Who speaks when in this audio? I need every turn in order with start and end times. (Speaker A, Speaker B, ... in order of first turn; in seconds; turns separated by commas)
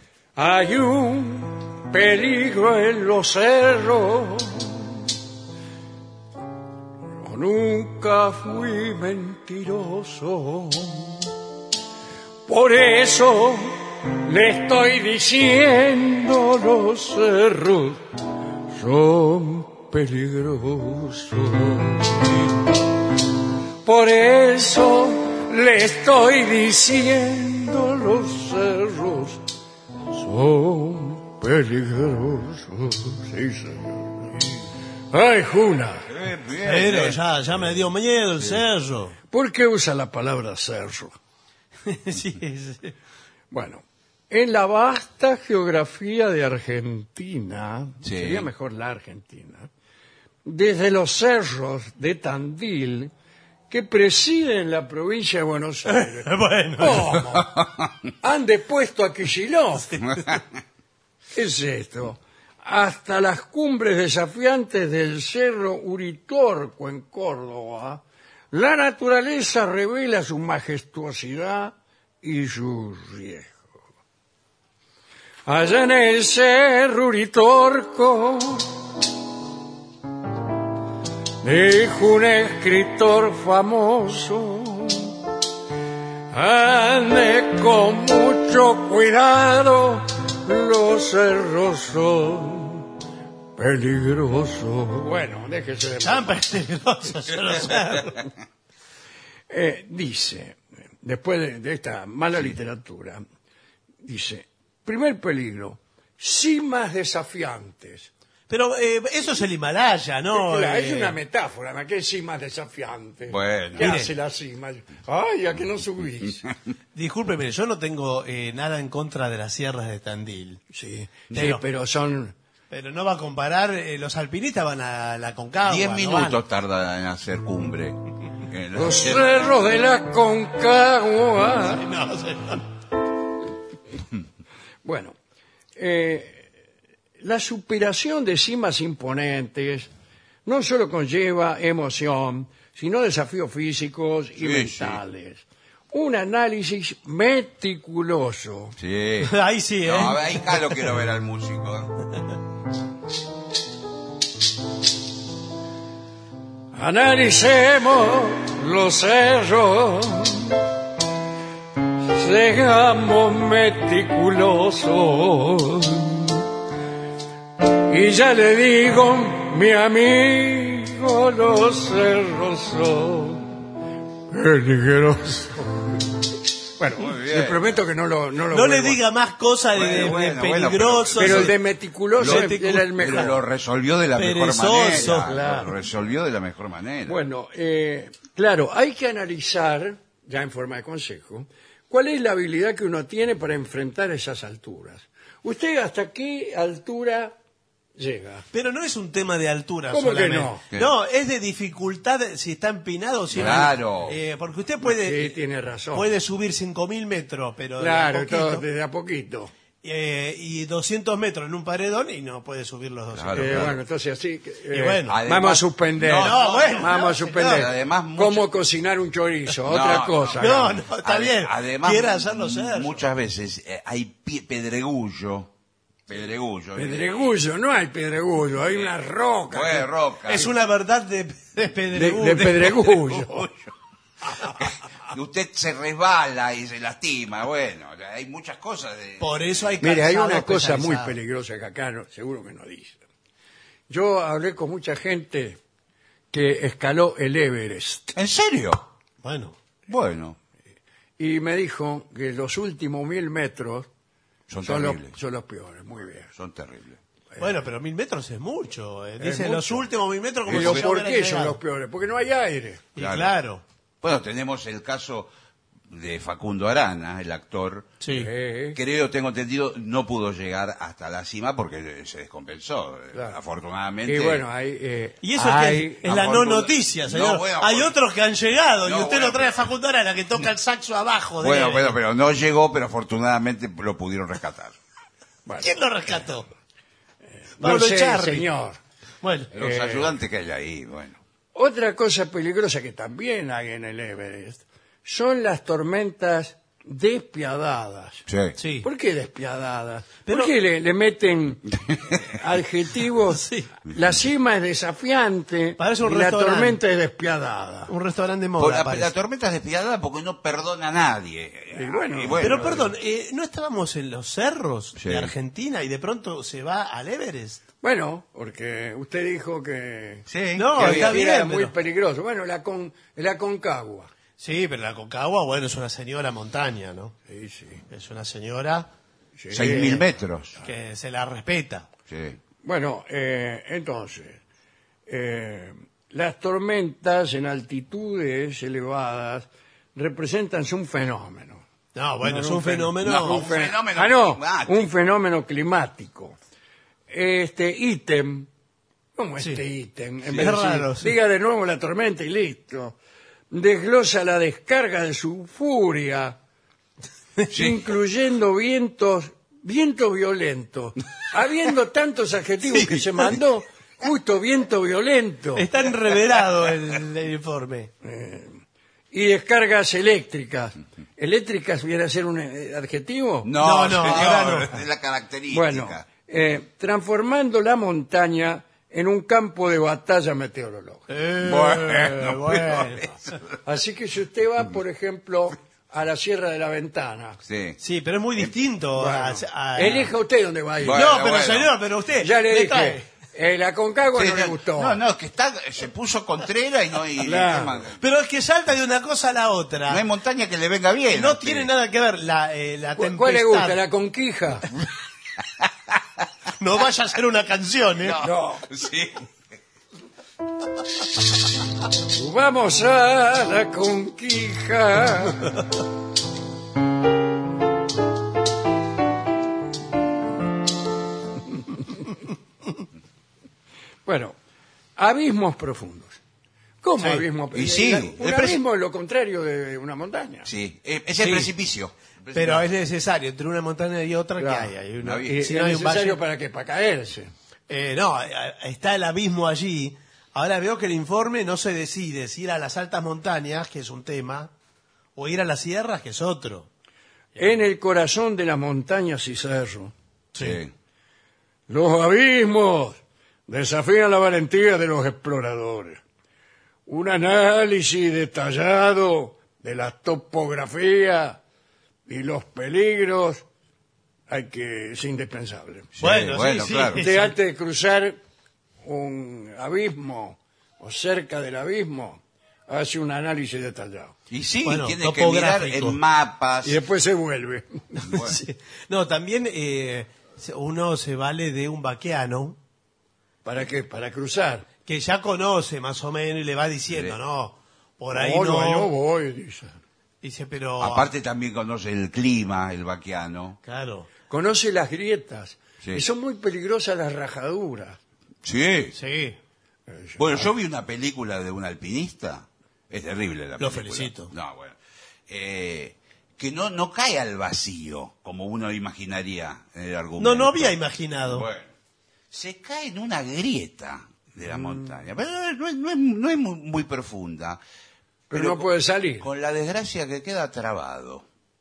Speaker A: 0.4-5.1, Speaker A: 7.2-11.3, Speaker A: 12.5-18.0, Speaker A: 18.7-22.8, Speaker A: 23.8-29.4, Speaker A: 30.1-34.5, Speaker A: 35.1-36.1, Speaker B: 36.1-37.2, Speaker C: 36.6-39.2, Speaker A: 39.3-41.1, Speaker C: 41.9-42.9, Speaker A: 43.5-49.7, Speaker B: 48.0-48.5, Speaker A: 50.5-53.1, Speaker A: 53.7-57.5, Speaker C: 55.9-57.2, Speaker A: 58.2-60.0, Speaker C: 59.9-60.3, Speaker A: 61.3-73.7, Speaker A: 75.5-78.7, Speaker A: 81.4-85.2, Speaker A: 86.3-92.9, Speaker A: 93.6-96.3, Speaker C: 96.0-98.2, Speaker A: 99.5-103.2, Speaker A: 104.0-108.1, Speaker C: 108.5-111.2, Speaker A: 110.3-116.5, Speaker B: 113.3-114.0, Speaker C: 113.8-114.1, Speaker C: 117.0-120.6, Speaker A: 120.7-122.3, Speaker C: 121.3-121.6, Speaker C: 122.7-126.4, Speaker B: 125.7-129.6, Speaker A: 128.8-131.8, Speaker C: 131.6-132.6, Speaker A: 134.8-135.2, Speaker A: 135.8-136.5, Speaker A: 137.2-139.9, Speaker A: 140.5-148.8, Speaker B: 144.4-145.0, Speaker B: 148.8-149.3, Speaker C: 149.2-150.8, Speaker B: 149.9-152.0, Speaker A: 156.7-160.6, Speaker A: 162.1-166.4, Speaker A: 167.6-173.6, Speaker A: 174.3-176.0, Speaker A: 176.8-179.0, Speaker B: 176.9-177.7, Speaker C: 178.5-181.6, Speaker B: 179.7-181.6, Speaker A: 181.2-183.4, Speaker B: 182.2-187.2, Speaker C: 182.2-183.4, Speaker C: 184.2-185.7, Speaker A: 184.9-185.8, Speaker A: 187.1-197.4, Speaker A: 198.0-198.5, Speaker C: 198.5-205.4, Speaker A: 199.9-200.6, Speaker B: 203.3-204.2, Speaker A: 203.4-203.7, Speaker A: 204.8-206.1, Speaker C: 205.9-208.7, Speaker A: 207.8-209.5, Speaker C: 209.8-213.8, Speaker B: 213.1-213.8, Speaker A: 213.3-220.8, Speaker C: 214.7-215.2, Speaker B: 215.1-218.5, Speaker C: 216.1-217.7, Speaker B: 219.7-220.4, Speaker C: 220.4-223.0, Speaker B: 221.0-225.5, Speaker B: 226.1-227.3, Speaker A: 226.8-229.9, Speaker B: 229.5-230.5, Speaker C: 230.3-233.5, Speaker A: 231.9-233.5, Speaker B: 234.6-239.7, Speaker C: 239.2-241.2, Speaker A: 239.8-243.0, Speaker A: 243.9-245.6, Speaker A: 246.3-248.2, Speaker B: 248.2-248.8, Speaker C: 249.2-249.6, Speaker B: 249.9-250.4, Speaker A: 251.2-253.9, Speaker B: 254.5-255.2, Speaker A: 254.6-256.3, Speaker B: 256.4-257.0, Speaker C: 257.4-261.6, Speaker A: 259.2-259.9, Speaker B: 260.5-260.8, Speaker A: 260.5-262.9, Speaker C: 262.9-263.6, Speaker B: 263.0-263.3, Speaker B: 264.0-265.3, Speaker B: 265.9-268.0, Speaker C: 268.0-268.3, Speaker A: 268.1-268.8, Speaker B: 268.8-274.4, Speaker A: 274.1-276.2, Speaker C: 275.2-282.0, Speaker B: 276.1-277.9, Speaker B: 278.9-279.7, Speaker B: 281.4-284.8, Speaker A: 285.5-285.7, Speaker C: 285.6-286.5, Speaker A: 287.6-288.8, Speaker C: 287.6-288.5, Speaker C: 289.2-289.5, Speaker B: 289.5-291.2, Speaker A: 289.6-290.1, Speaker A: 291.5-298.2, Speaker B: 298.3-298.6, Speaker C: 298.6-298.9, Speaker A: 298.8-307.9, Speaker C: 300.3-300.5, Speaker C: 303.3-303.7, Speaker C: 305.8-306.8, Speaker C: 307.9-309.1, Speaker B: 308.6-312.9, Speaker A: 311.7-312.9, Speaker C: 312.4-317.6, Speaker B: 315.0-315.3, Speaker A: 317.8-320.3, Speaker B: 320.3-321.2, Speaker C: 320.6-321.7, Speaker A: 320.8-324.1, Speaker C: 324.4-327.1, Speaker A: 327.3-327.8, Speaker C: 327.9-328.9, Speaker A: 329.4-330.1, Speaker B: 329.5-330.6, Speaker C: 330.6-331.9, Speaker B: 332.1-332.4, Speaker A: 332.6-334.4, Speaker A: 335.1-341.6, Speaker C: 341.9-343.5, Speaker A: 342.2-346.4, Speaker B: 343.0-344.9, Speaker A: 347.1-348.5, Speaker A: 349.2-353.0, Speaker C: 350.3-351.1, Speaker A: 353.5-356.4, Speaker A: 357.5-365.7, Speaker B: 357.5-357.8, Speaker C: 362.7-363.4, Speaker C: 365.6-367.9, Speaker A: 368.0-368.6, Speaker A: 369.1-373.5, Speaker B: 373.4-376.1, Speaker C: 373.6-374.8, Speaker A: 375.5-381.1, Speaker C: 381.1-383.1, Speaker B: 381.4-383.1, Speaker A: 383.6-387.4, Speaker B: 387.5-387.8, Speaker C: 387.8-390.1, Speaker A: 389.0-391.1, Speaker B: 390.8-391.7, Speaker C: 390.9-393.0, Speaker A: 392.2-395.0, Speaker B: 394.1-398.0, Speaker A: 397.2-397.9, Speaker C: 398.0-400.0, Speaker B: 399.9-401.7, Speaker C: 401.1-403.8, Speaker A: 403.0-404.7, Speaker C: 406.6-408.2, Speaker B: 408.0-409.3, Speaker A: 408.2-408.6, Speaker A: 412.0-415.7, Speaker A: 424.1-424.4, Speaker A: 425.0-426.2, Speaker A: 426.8-430.5, Speaker C: 427.0-427.3, Speaker B: 427.5-428.6, Speaker B: 430.5-432.7, Speaker C: 432.3-436.2, Speaker A: 434.4-434.7, Speaker B: 435.0-435.4, Speaker A: 435.3-437.3, Speaker C: 437.7-444.5, Speaker C: 445.2-446.7, Speaker A: 447.4-449.9, Speaker C: 450.4-450.6, Speaker B: 450.4-450.7, Speaker A: 451.7-456.0, Speaker A: 456.9-461.4, Speaker A: 462.1-463.4, Speaker A: 464.3-465.9, Speaker B: 466.0-467.0, Speaker C: 466.0-467.3, Speaker A: 467.0-468.2, Speaker A: 468.8-474.1, Speaker B: 474.3-476.8, Speaker C: 474.6-476.0, Speaker A: 476.6-478.0, Speaker C: 477.9-482.6, Speaker B: 478.1-478.4, Speaker A: 483.4-484.7, Speaker C: 484.9-488.9, Speaker B: 486.9-487.2, Speaker A: 488.1-489.8, Speaker C: 490.2-491.1, Speaker B: 490.8-493.6, Speaker C: 493.6-494.1, Speaker A: 494.3-498.0, Speaker B: 498.4-498.9, Speaker C: 498.9-499.4, Speaker A: 499.9-500.5, Speaker B: 500.2-504.8, Speaker C: 503.6-504.3, Speaker B: 505.3-510.8, Speaker C: 510.2-511.5, Speaker B: 511.3-511.7, Speaker B: 512.3-517.6, Speaker A: 514.5-514.9, Speaker A: 518.3-519.3, Speaker B: 518.3-518.7, Speaker B: 519.2-521.2